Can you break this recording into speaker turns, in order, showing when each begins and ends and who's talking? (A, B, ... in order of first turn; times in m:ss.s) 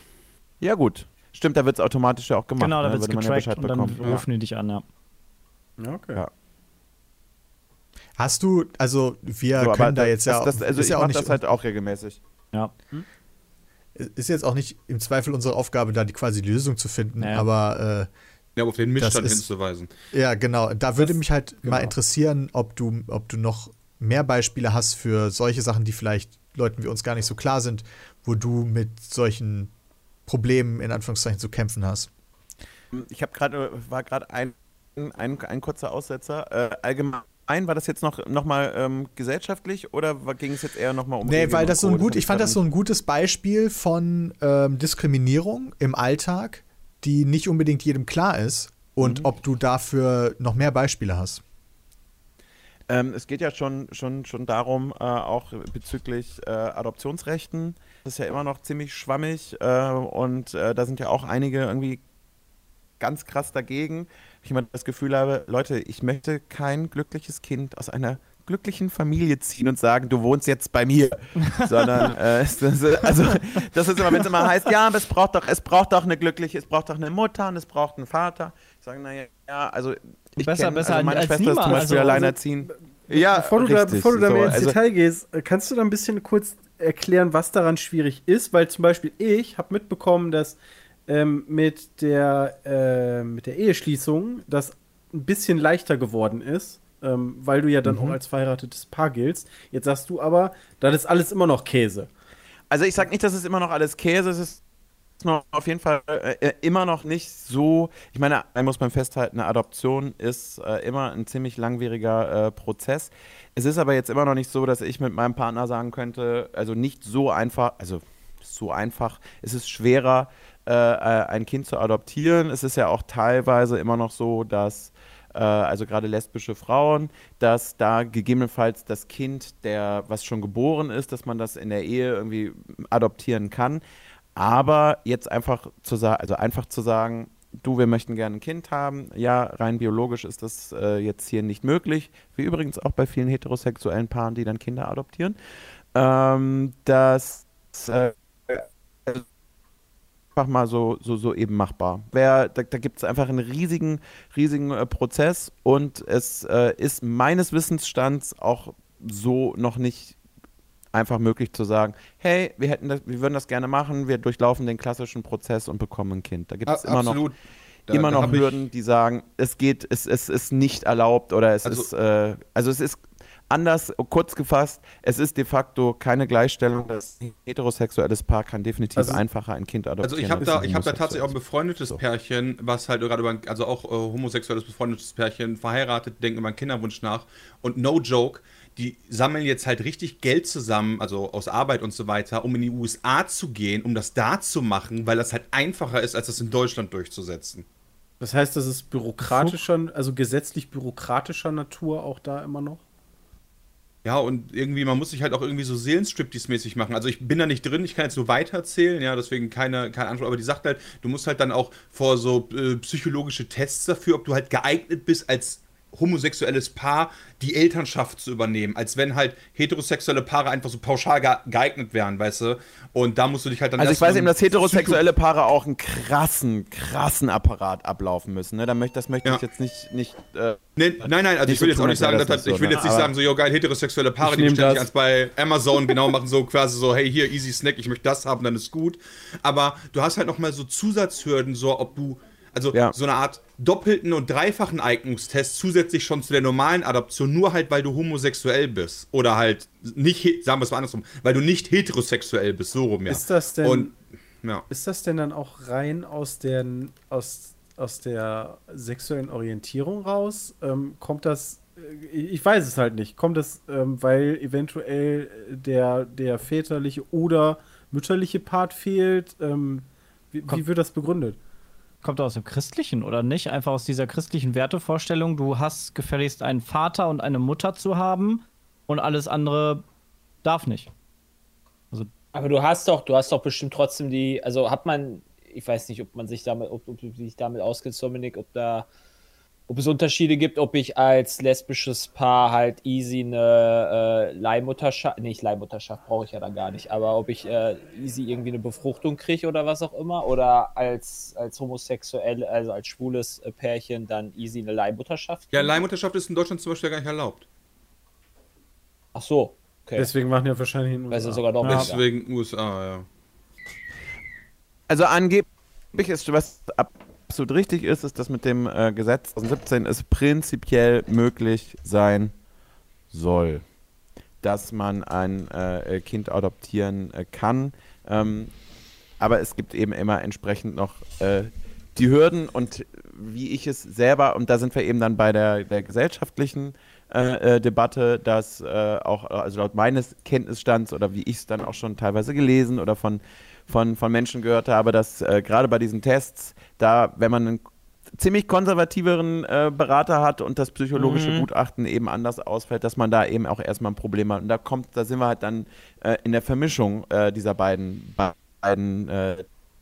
0:00.6-0:04.2 A
0:02.6-0:04.8 B
0:05.8-0:06.2 C
0:08.2-0:11.4 D
0:09.6-0:12.2 A
0:14.0-0:18.1 D
0:18.6-0:19.9 E
0:19.0-0:19.4 D
0:20.1-0:29.7 D
0:21.0-0:21.9 C
0:30.3-0:32.1 D
0:32.9-0:42.6 A
0:41.2-0:51.4 D
0:49.0-0:49.3 A
0:52.9-1:02.0 A
1:03.0-1:24.7 A
1:20.4-1:22.3 B
1:21.7-1:42.1 C
1:37.8-1:38.2 A
1:42.7-1:44.6 A
1:45.2-2:13.8 A
2:14.4-2:25.4 A
2:25.9-2:29.2 A
2:30.3-2:40.2 A
2:40.9-2:47.2 A
2:46.6-2:47.4 E
2:47.9-2:48.6 E
2:47.9-3:02.0 A
2:59.0-2:59.2 C
3:00.0-3:17.6 E
3:18.2-3:22.8 C
3:19.2-3:19.5 E
3:24.0-3:45.0 E
3:43.8-3:53.1 A
3:50.8-4:14.6 E
3:54.2-3:54.9 C
4:13.1-4:13.9 C
4:14.7-4:31.4 C
4:32.0-4:39.8 B
4:40.4-4:40.9 B
4:42.3-4:48.9 F
4:49.7-5:05.8 F
5:05.5-5:07.4 E
5:09.1-5:10.1 F
5:10.0-5:11.8 C
5:11.1-5:12.0 F
5:11.6-5:13.0 E
5:14.9-5:22.3 A
5:23.1-5:23.6 A
5:24.4-5:28.5 A
5:29.2-5:59.4 A
5:50.9-5:51.5 F